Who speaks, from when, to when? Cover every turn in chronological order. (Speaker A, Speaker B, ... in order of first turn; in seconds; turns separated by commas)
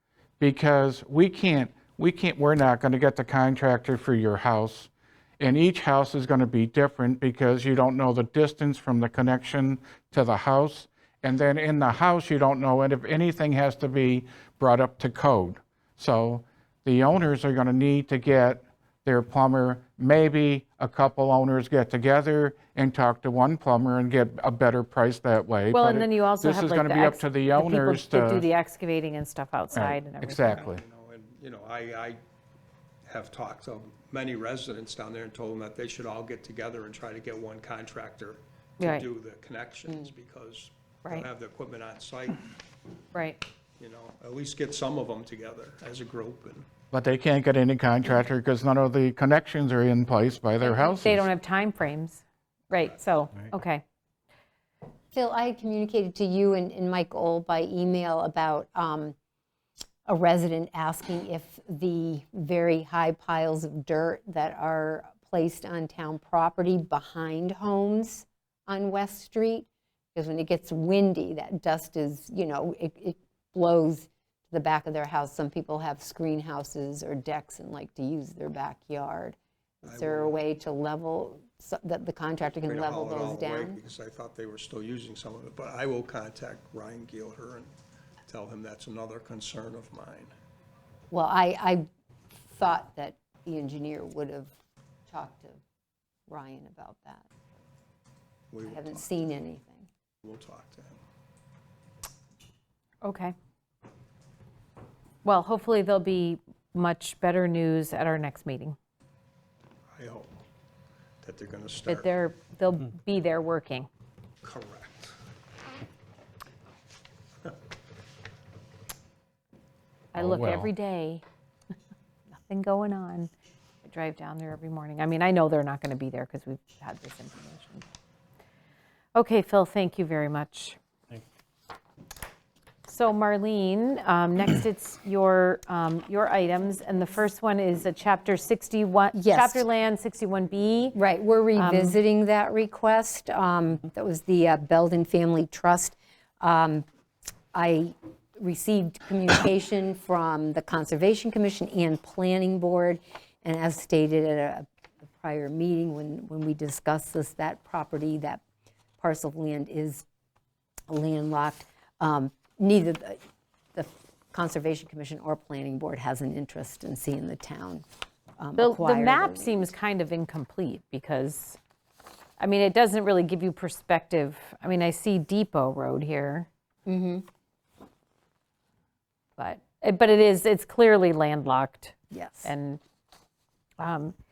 Speaker A: 0.4-28.5, Speaker B: 25.7-30.6, Speaker A: 29.7-30.8, Speaker C: 30.4-32.2, Speaker C: 33.1-42.4, Speaker B: 38.8-39.0, Speaker B: 43.1-43.4, Speaker C: 43.8-46.6, Speaker A: 46.9-51.3, Speaker B: 50.6-53.8, Speaker D: 55.1-59.1, Speaker D: 60.0-83.8, Speaker C: 79.8-80.4, Speaker C: 82.6-87.7, Speaker C: 88.3-90.3, Speaker D: 91.1-91.9, Speaker D: 92.5-94.5, Speaker D: 95.1-95.6, Speaker D: 96.3-97.2, Speaker C: 98.5-99.1, Speaker D: 98.6-99.9, Speaker C: 100.2-101.0, Speaker B: 103.0-103.3, Speaker B: 105.2-108.8, Speaker C: 110.0-110.3, Speaker C: 111.2-112.1, Speaker B: 111.9-113.9, Speaker C: 114.4-115.1, Speaker B: 120.1-121.2, Speaker A: 120.2-120.7, Speaker B: 122.5-123.3, Speaker B: 123.8-127.8, Speaker B: 129.1-130.8, Speaker B: 132.9-141.0, Speaker D: 139.1-139.7, Speaker D: 140.9-146.8, Speaker B: 141.6-142.0, Speaker D: 147.5-158.4, Speaker D: 159.0-160.0, Speaker D: 160.9-163.2, Speaker D: 163.7-167.8, Speaker D: 168.4-169.7, Speaker B: 168.6-171.6, Speaker B: 172.4-176.5, Speaker D: 176.8-177.2, Speaker B: 179.4-182.8, Speaker D: 182.1-182.5, Speaker B: 183.8-184.1